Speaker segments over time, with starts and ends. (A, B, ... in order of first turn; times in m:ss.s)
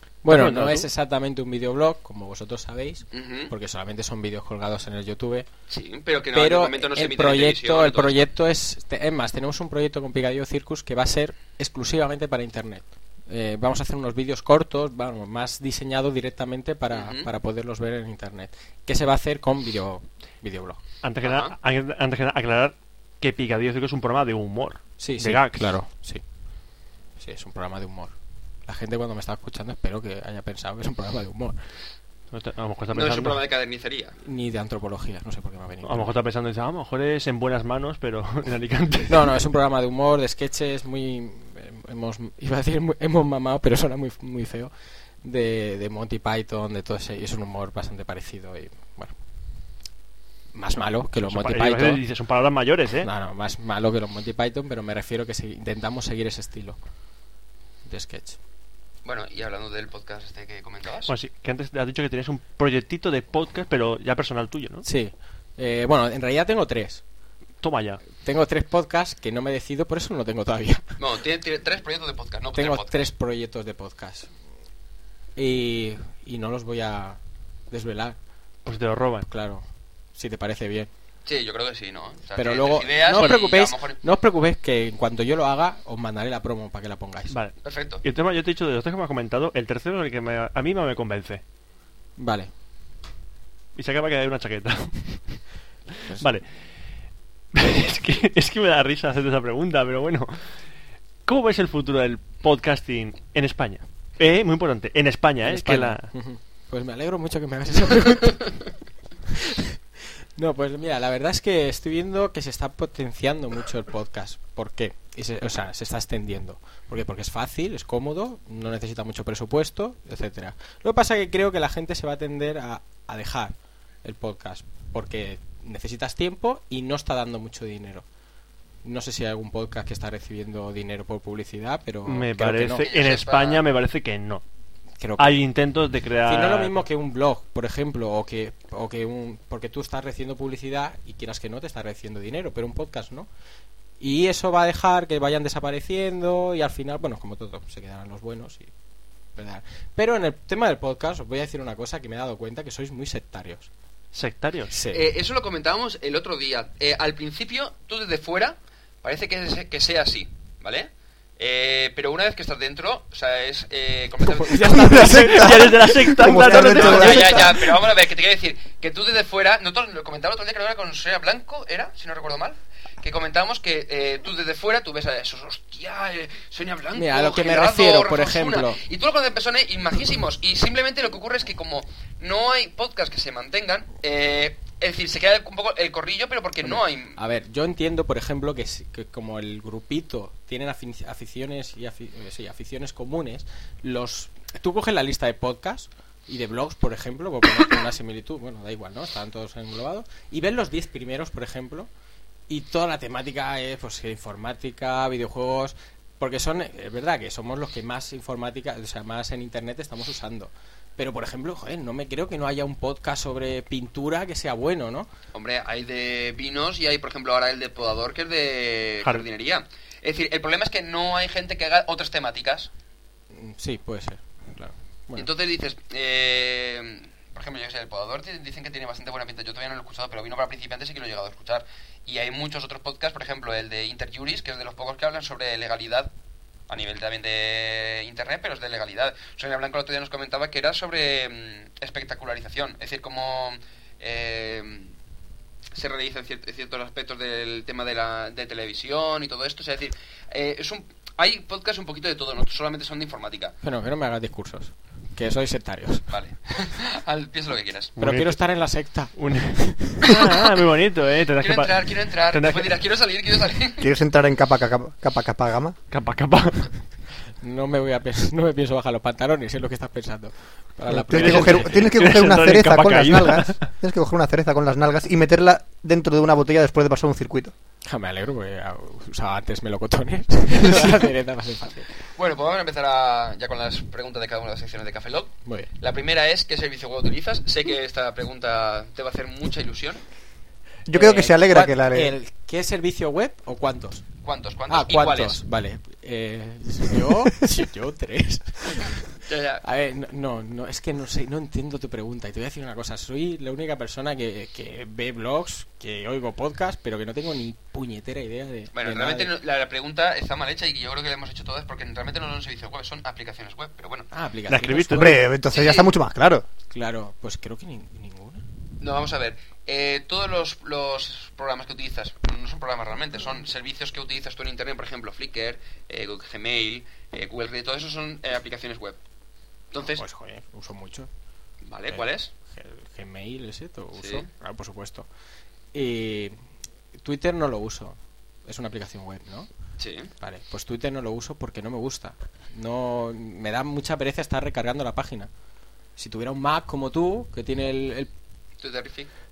0:00.2-0:05.5 A
0:00.3-0:00.9 B
0:03.1-0:03.5 C
0:05.7-0:08.2 C
0:06.3-0:20.8 A
0:16.9-0:17.3 C
0:21.0-0:25.8 B
0:21.2-0:21.6 C
0:25.0-0:26.2 A
0:27.2-0:28.2 A
0:28.7-0:31.6 A
0:32.3-0:33.4 B
0:32.9-0:34.2 C
0:34.2-0:36.2 A
0:35.8-0:39.3 B
0:39.1-0:44.7 A
0:45.2-0:49.1 A
0:50.5-0:52.0 A
0:51.2-0:53.1 B
0:53.0-0:56.8 A
0:57.9-0:58.4 A
0:59.0-1:01.1 C
1:01.1-1:04.8 B
1:04.8-1:07.0 A
1:07.6-1:08.0 B
1:08.2-1:11.0 A
1:11.0-1:13.0 C
1:12.6-1:14.3 A
1:15.4-1:17.2 A
1:17.7-1:18.2 A
1:18.6-1:19.3 B
1:19.3-1:19.6 A
1:20.2-1:20.9 A
1:21.3-1:24.0 C
1:22.4-1:27.4 A
1:27.3-1:31.4 B
1:27.6-1:28.0 C
1:32.2-1:32.5 A
1:33.8-1:35.4 B
1:36.2-1:36.4 B
1:37.5-1:40.5 B
1:41.3-1:46.1 B
1:45.4-1:48.6 A
1:49.4-1:49.6 A
1:50.4-2:08.0 A
2:08.8-2:12.8 A
2:12.1-2:14.4 B
2:12.8-2:13.6 C
2:15.0-2:15.4 A
2:15.2-2:16.8 B
2:16.3-2:23.3 A
2:24.0-2:28.7 A
2:29.4-2:33.7 A
2:34.1-2:34.8 B
2:34.7-2:35.1 A
2:34.9-2:45.1 C
2:44.2-2:46.2 A
2:44.9-2:47.7 D
2:45.0-2:47.5 B
2:46.4-3:07.2 C
2:57.0-2:58.8 A
3:06.6-3:21.9 A
3:22.5-3:35.1 A
3:35.3-3:42.7 C
3:43.3-3:45.3 A
3:45.2-3:56.1 C
3:56.7-4:04.9 C
4:05.7-4:13.6 C
4:13.6-4:16.1 A
4:16.1-4:18.0 C
4:18.0-4:18.4 B
4:18.0-4:20.1 A
4:19.2-4:22.8 B
4:21.4-4:23.9 C
4:23.8-4:25.8 D
4:25.9-4:26.8 B
4:27.4-4:31.8 A
4:30.9-4:37.5 D
4:31.1-4:33.7 B
4:37.9-4:41.9 A
4:42.2-4:50.0 C
4:50.9-4:52.2 D
4:50.9-4:54.0 A
4:54.2-4:55.4 C
4:54.7-5:09.3 A
4:59.2-4:59.6 C
5:08.8-5:14.1 C
5:14.1-5:15.2 A
5:14.5-5:15.2 B
5:14.9-5:16.5 D
5:15.5-5:15.9 C
5:16.7-5:18.4 A
5:18.8-5:29.0 C
5:29.7-5:30.0 C
5:29.9-5:31.1 A
5:31.6-5:32.3 C
5:31.9-5:35.1 A
5:34.0-5:34.3 C
5:35.7-5:36.4 A
5:37.0-5:39.5 A
5:39.8-5:40.1 C
5:40.2-5:45.3 A
5:46.0-5:48.1 A
5:48.6-5:49.1 C